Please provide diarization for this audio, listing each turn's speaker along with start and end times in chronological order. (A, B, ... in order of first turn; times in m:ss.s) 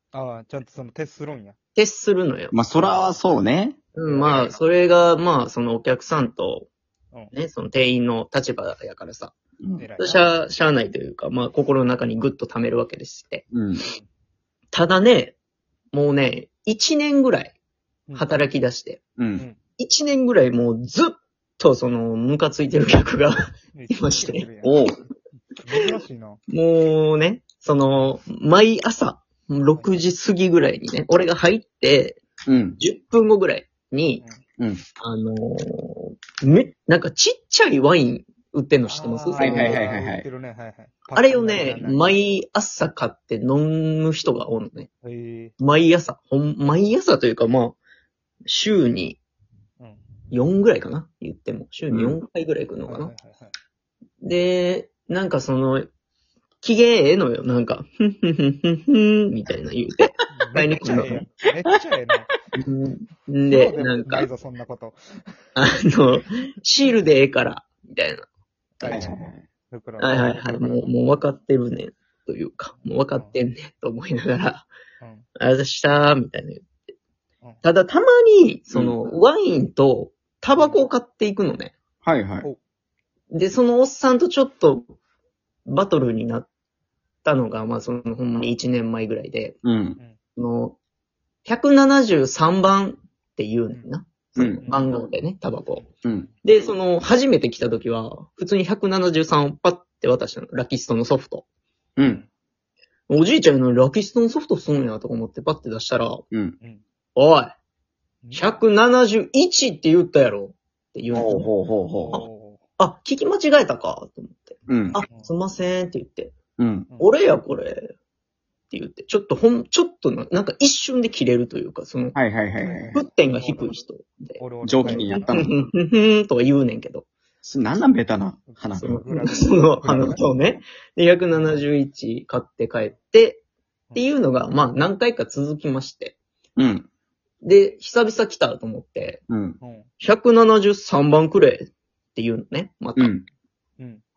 0:00.1-0:01.6 A
0:01.8-0:02.7 B
0:02.5-0:03.8 C
0:02.7-0:03.1 A
0:03.9-0:06.7 B
0:04.0-0:04.6 A
0:07.3-0:09.3 B
0:09.6-0:09.9 C
0:09.8-0:10.3 A
0:10.0-0:13.4 B
0:13.5-0:13.8 C
0:14.7-0:15.4 B
0:15.9-0:17.5 B
0:18.1-0:18.3 A
0:18.2-0:19.0 B
0:19.2-0:19.4 C
0:19.8-0:23.3 B
0:23.7-0:24.8 A
0:23.9-0:24.5 B
0:24.6-0:24.9 C
0:25.5-0:26.4 A
0:26.5-0:32.2 B
0:29.7-0:30.0 A
0:32.5-0:32.8 C
0:32.8-0:34.2 B
0:35.0-0:39.8 B
0:38.8-0:42.2 A
0:39.4-0:40.3 C
0:41.1-0:44.9 B
0:45.0-0:45.5 A
0:45.6-0:47.8 B
0:48.5-0:49.2 B
0:50.3-0:53.1 B
0:51.9-0:52.2 C
0:52.8-0:53.5 A
0:54.2-0:55.9 B
0:56.6-1:01.3 B
1:00.3-1:02.3 A
1:02.5-1:04.3 B
1:03.5-1:05.0 A
1:05.6-1:08.3 B
1:08.8-1:11.0 A
1:08.8-1:09.1 B
1:08.9-1:09.4 C
1:10.0-1:14.7 B
1:12.8-1:13.4 A
1:15.0-1:15.3 A
1:15.4-1:16.7 B
1:17.6-1:21.7 B
1:18.7-1:19.0 C
1:20.6-1:20.9 A
1:22.0-1:22.5 C
1:23.3-1:24.9 B
1:25.7-1:26.5 B
1:27.2-1:29.6 B
1:29.6-1:30.0 C
1:30.3-1:30.8 B
1:31.4-1:35.9 B
1:34.4-1:34.6 C
1:34.6-1:34.9 A
1:36.0-1:36.3 C
1:36.4-1:41.4 B
1:42.0-1:42.2 C
1:43.1-1:46.2 B
1:47.2-1:47.5 B
1:48.2-1:48.6 A
1:48.3-1:51.5 B
1:51.1-1:52.2 C
1:52.0-1:52.6 A
1:52.8-1:56.3 B
1:54.7-1:55.0 C
1:55.1-1:55.3 A
1:56.6-1:56.9 C
1:57.0-1:57.9 B
1:58.7-2:02.2 B
2:02.2-2:03.0 C
2:02.6-2:03.8 A
2:02.9-2:07.1 B
2:04.4-2:05.3 A
2:04.6-2:05.5 C
2:07.4-2:09.0 C
2:08.5-2:10.2 A
2:08.8-2:13.4 B
2:09.8-2:10.2 C
2:11.3-2:11.6 A
2:14.0-2:16.2 B
2:16.6-2:16.9 C
2:17.4-2:19.2 B
2:19.3-2:19.6 C
2:19.6-2:19.9 A
2:20.0-2:23.1 B
2:23.0-2:23.3 C